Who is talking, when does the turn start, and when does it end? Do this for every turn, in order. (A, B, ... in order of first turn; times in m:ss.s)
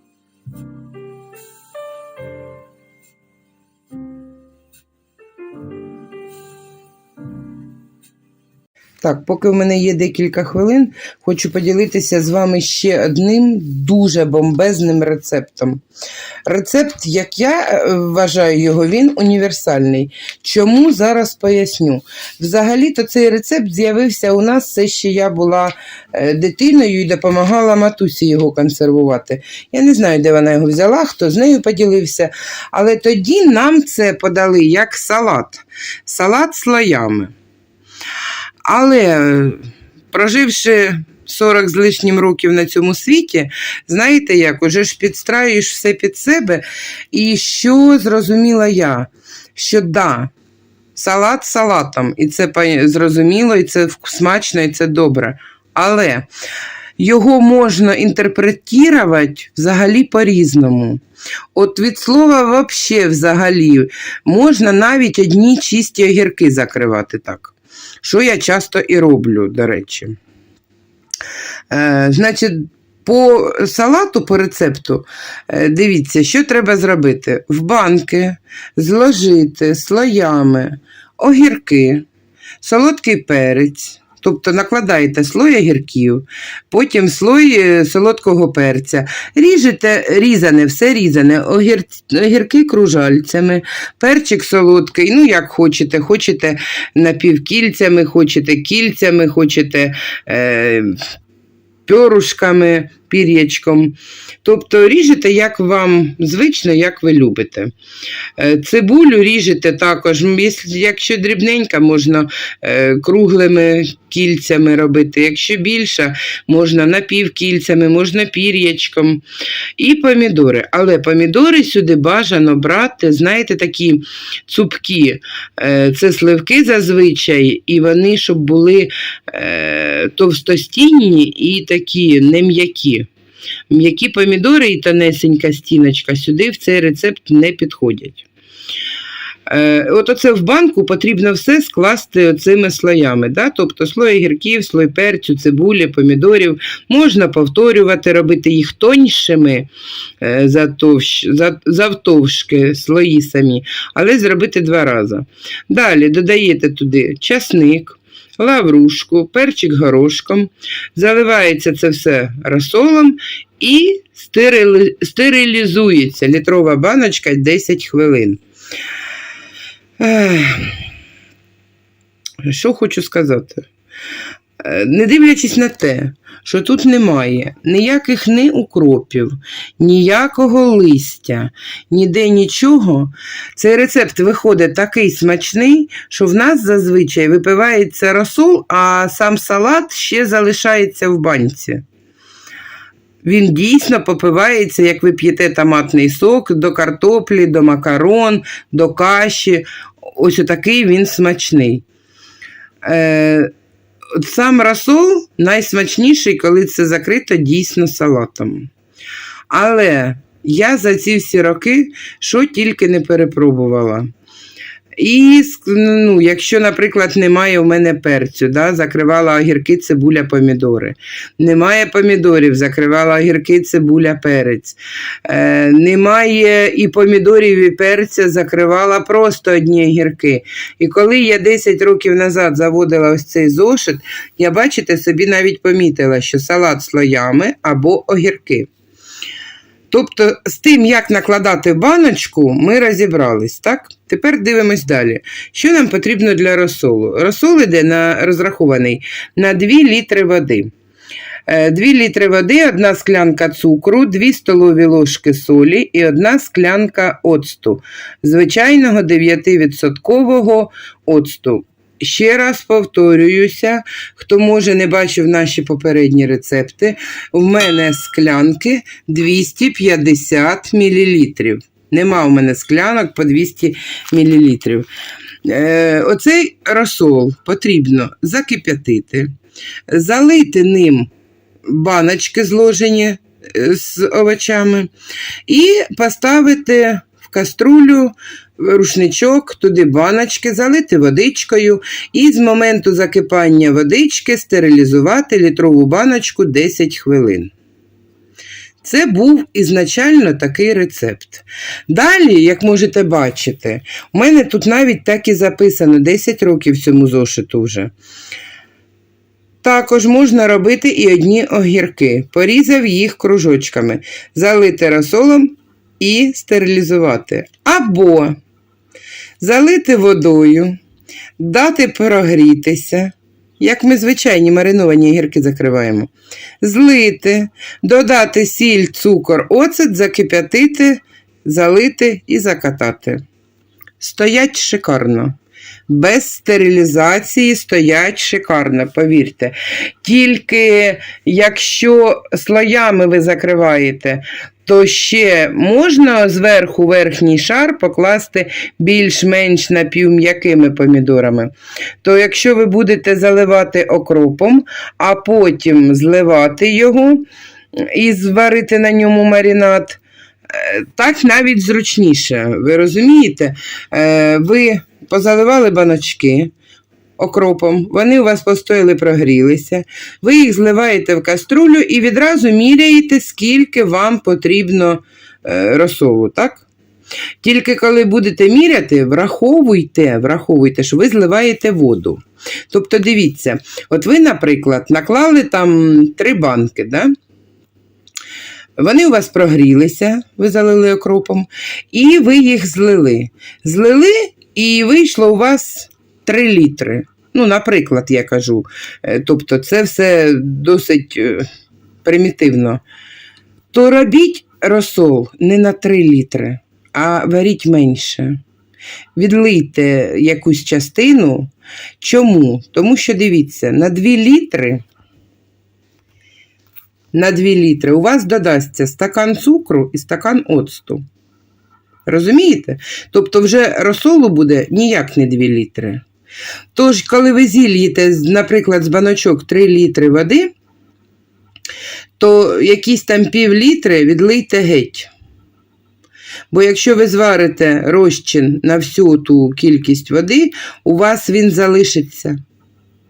0:09.0-0:15.8 A
0:16.5-0:37.3 A
0:38.6-0:50.3 A
0:51.0-0:56.3 A
0:57.0-1:01.0 A
1:01.6-1:10.2 A
1:11.7-1:22.1 A
1:22.6-1:41.0 A
1:41.9-1:47.7 A
1:48.4-1:59.2 A
1:59.8-2:13.1 A
2:13.7-2:18.3 A
2:19.5-2:29.7 A
2:30.2-2:48.4 A
2:50.0-2:50.8 A
2:52.4-2:53.7 A
2:54.6-3:11.8 A
3:13.2-3:21.8 A
3:22.8-3:23.5 A
3:24.2-3:28.7 A
3:29.5-3:34.1 A
3:35.0-3:58.7 A
3:59.9-4:10.7 A
4:11.5-4:34.9 A
4:35.4-4:39.3 A
4:39.9-4:41.1 A
4:41.7-4:44.9 A
4:45.5-4:57.5 A
4:58.8-5:07.9 A
5:09.6-5:18.4 A
5:19.4-5:20.8 A
5:21.4-5:26.1 A
5:26.6-5:33.2 A
5:34.0-5:35.4 A
5:35.9-6:06.5 A
6:07.2-6:16.7 A
6:17.4-6:27.1 A
6:28.8-6:41.5 A
6:42.0-6:42.8 A
6:43.7-6:48.4 A
6:49.2-6:54.8 A
6:57.1-7:01.0 A
7:02.1-7:06.0 A
7:06.7-7:10.5 A
7:12.2-7:15.1 A
7:16.5-7:22.4 A